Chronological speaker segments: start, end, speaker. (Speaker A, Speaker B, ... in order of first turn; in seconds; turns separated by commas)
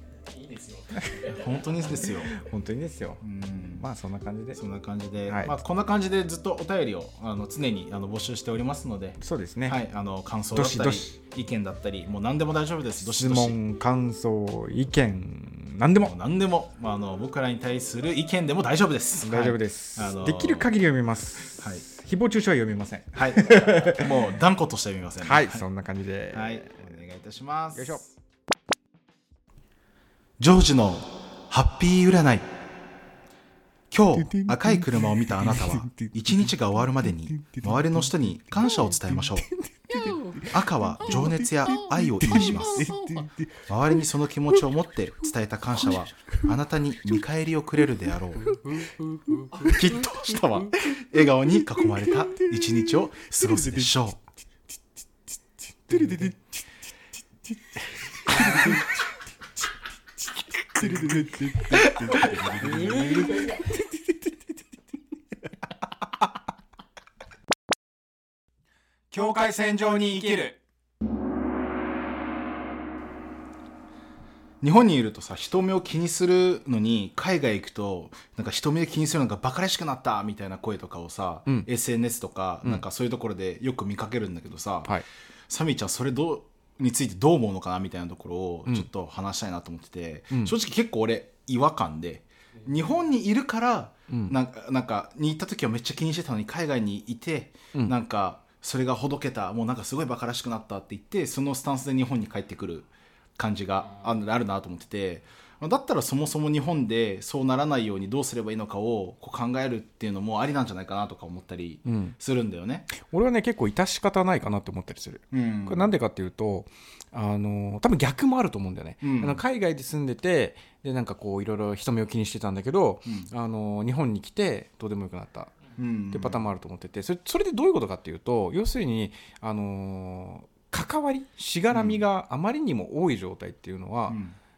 Speaker A: 0.2-2.1, Speaker B: 1.2-2.3, Speaker C: 2.2-3.2, Speaker B: 3.2-3.9, Speaker C: 3.8-4.6, Speaker B: 4.5-13.6, Speaker C: 5.3-5.6, Speaker C: 9.2-9.8, Speaker C: 10.5-11.1, Speaker C: 13.0-16.1, Speaker B: 16.0-20.7, Speaker C: 19.2-24.1, Speaker B: 21.6-21.8, Speaker B: 23.1-25.6, Speaker C: 25.2-26.9, Speaker B: 26.3-28.2, Speaker C: 27.7-28.0, Speaker B: 30.4-32.5, Speaker B: 33.9-39.5, Speaker C: 35.8-36.1, Speaker A: 39.9-43.3, Speaker B: 40.5-43.0, Speaker B: 43.6-48.6, Speaker B: 49.5-54.2, Speaker C: 55.9-56.3, Speaker B: 55.9-56.3, Speaker C: 57.8-58.9, Speaker B: 58.3-58.7, Speaker C: 60.5-63.9, Speaker B: 60.8-63.5, Speaker A: 63.0-63.6, Speaker B: 69.1-70.5, Speaker C: 70.2-70.5, Speaker B: 74.6-112.9, Speaker C: 94.1-94.4, Speaker C: 111.8-112.1, Speaker C: 112.9-125.5, Speaker B: 115.3-115.9, Speaker B: 119.0-119.4, Speaker B: 125.8-126.5, Speaker C: 126.1-134.2, Speaker B: 131.7-132.0, Speaker B: 134.1-134.3